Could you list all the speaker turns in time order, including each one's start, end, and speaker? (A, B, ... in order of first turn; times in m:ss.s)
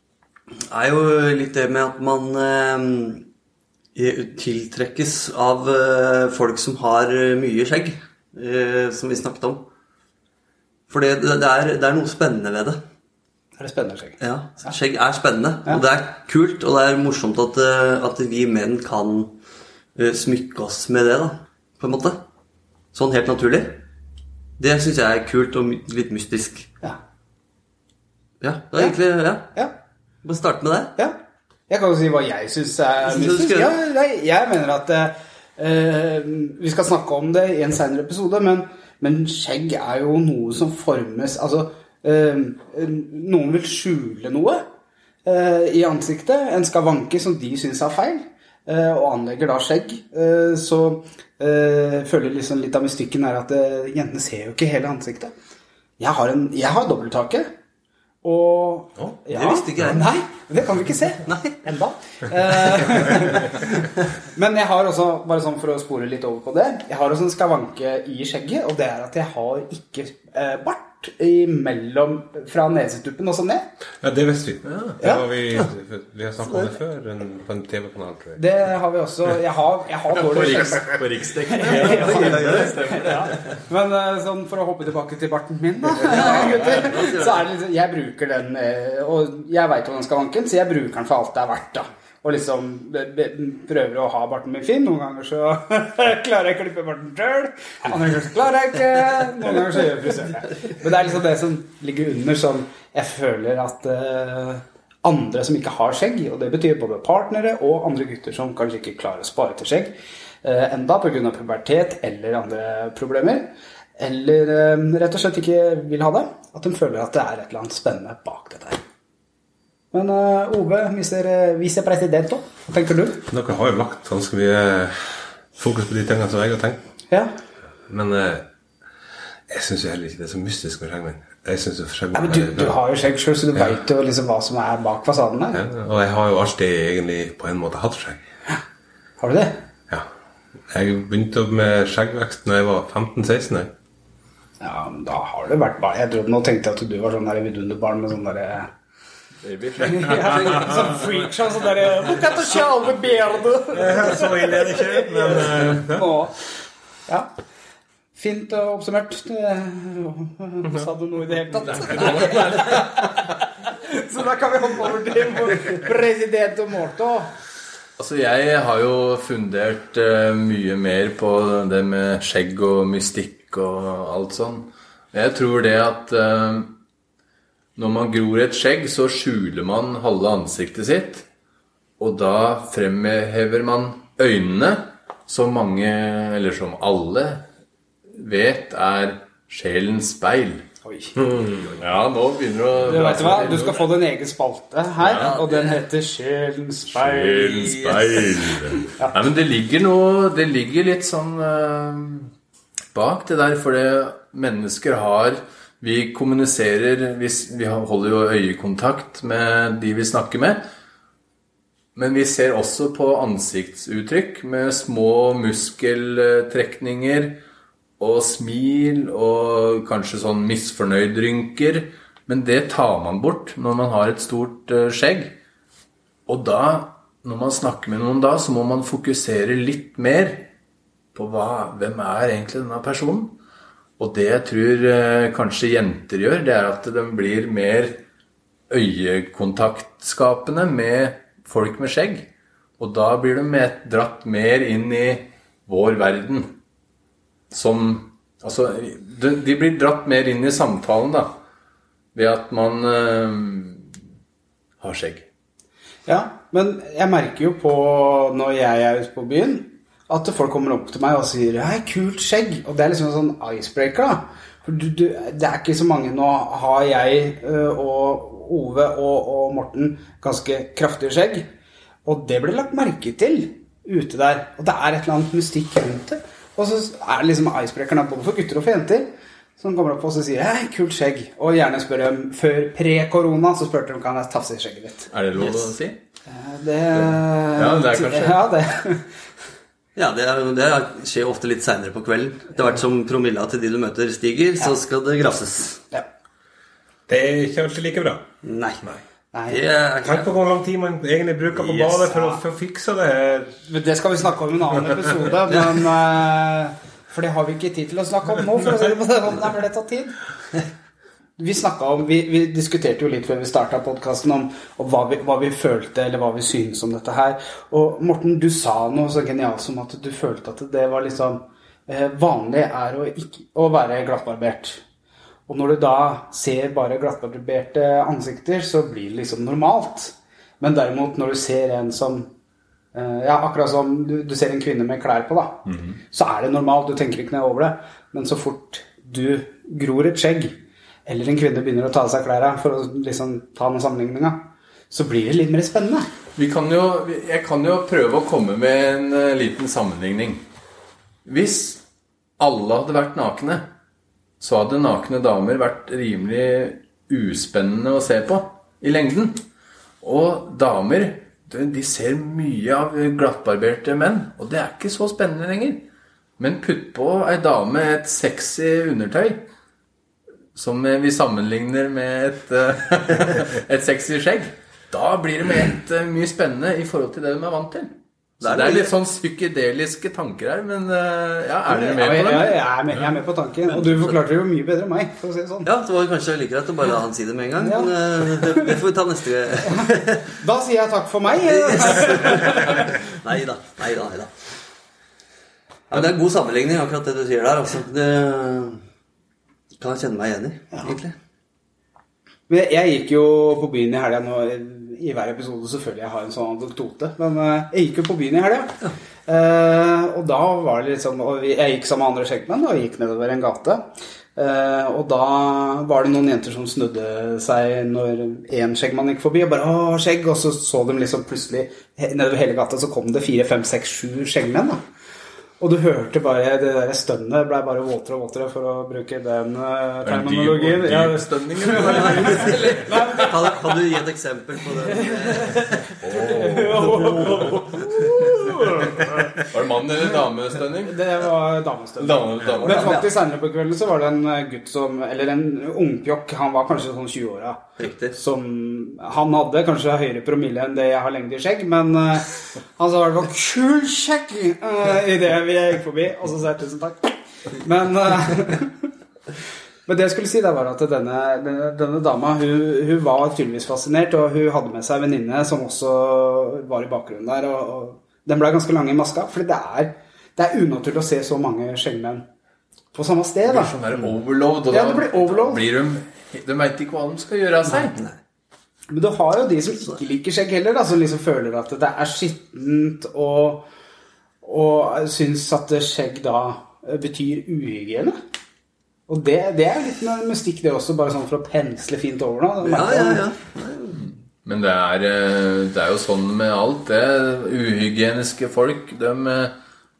0:00.7-0:03.2 A
0:04.0-0:09.6 A
0:10.9-0:12.8 A
0:13.6-0:14.7 B
0:14.2-0:19.3 A
0:20.0-0:22.2 A
0:22.9-0:23.8 A
0:24.6-0:26.7 A
0:28.4-0:29.5 A
0:30.2-0:30.9 A
0:31.7-0:44.7 B
0:33.0-0:33.8 A
0:45.2-0:55.3 B
0:56.0-0:57.5 B
0:58.2-1:13.7 B
0:59.3-1:00.1 A
1:01.2-1:01.6 A
1:02.9-1:03.4 A
1:14.0-1:18.4 C
1:14.6-1:15.0 D
1:15.0-1:15.3 B
1:16.5-1:16.7 A
1:18.4-1:58.8 B
1:20.1-1:23.6 D
1:21.6-1:23.2 A
1:26.0-1:27.4 A
1:26.1-1:26.6 D
1:59.9-2:03.2 B
2:03.3-2:06.8 C
2:07.9-2:08.5 C
2:09.5-2:12.8 C
2:12.1-2:15.6 B
2:15.5-2:18.2 C
2:19.2-2:19.6 B
2:20.7-2:23.7 C
2:24.6-2:28.7 B
2:29.4-2:31.2 D
2:29.8-2:36.4 B
2:33.7-2:36.2 C
2:38.2-2:47.3 B
2:41.6-2:43.2 D
2:48.0-2:56.8 D
2:57.8-3:01.3 D
3:02.0-3:07.4 D
3:08.1-3:10.6 D
3:10.8-3:11.2 B
3:11.2-3:11.7 C
3:11.7-3:13.8 D
3:12.8-3:17.9 B
3:13.3-3:13.6 C
3:15.0-3:15.4 D
3:15.1-3:15.8 A
3:16.9-3:22.3 D
3:17.6-3:18.4 A
3:22.9-3:30.6 D
3:32.0-3:37.4 D
3:38.0-3:45.4 D
3:46.3-3:50.5 D
3:51.1-3:53.4 D
3:54.0-3:58.0 D
3:58.7-4:02.3 D
4:02.8-4:06.6 D
4:07.5-4:11.3 D
4:12.2-4:13.9 D
4:14.8-4:15.3 D
4:16.1-4:31.5 B
4:32.0-4:45.1 B
4:45.1-4:46.0 D
4:45.4-4:45.7 A
4:46.3-4:49.1 B
4:46.9-4:48.5 D
4:50.0-4:55.8 A
4:57.1-4:58.3 C
4:58.4-4:58.8 B
4:59.3-4:59.6 B
4:59.5-5:00.3 A
5:00.0-5:03.6 C
5:01.6-5:02.4 B
5:03.7-5:10.2 B
5:11.4-5:24.8 B
5:25.5-5:32.3 B
5:32.9-5:46.1 B
5:35.7-5:36.0 D
5:46.4-5:50.4 D
5:51.2-5:51.8 D
5:52.4-5:53.7 D
5:54.4-5:59.4 D
6:00.0-6:09.4 D
6:10.6-6:22.7 D
6:18.4-6:18.9 A
6:21.7-6:25.7 B
6:25.6-6:30.3 A
6:27.6-6:28.7 B
6:29.7-6:33.0 B
6:31.4-6:34.3 A
6:35.9-6:38.8 A
6:39.8-6:41.1 A
6:42.5-6:48.7 B
6:49.3-7:04.8 B
7:05.6-7:13.6 B
7:10.0-7:13.5 D
7:11.7-7:15.9 A
7:14.8-7:19.4 B
7:16.0-7:17.7 D
7:18.8-7:19.3 C
7:19.4-7:21.0 D
7:20.8-7:38.8 B
7:22.0-7:23.1 D
7:22.6-7:23.2 A
7:27.8-7:28.2 A
7:39.9-7:52.2 B
7:52.9-7:53.8 B
7:53.5-7:58.0 D
7:54.7-7:55.6 B
7:58.9-8:03.7 B
8:04.4-8:08.2 B
8:09.1-8:13.3 B
8:12.6-8:14.0 A
8:13.9-8:19.6 D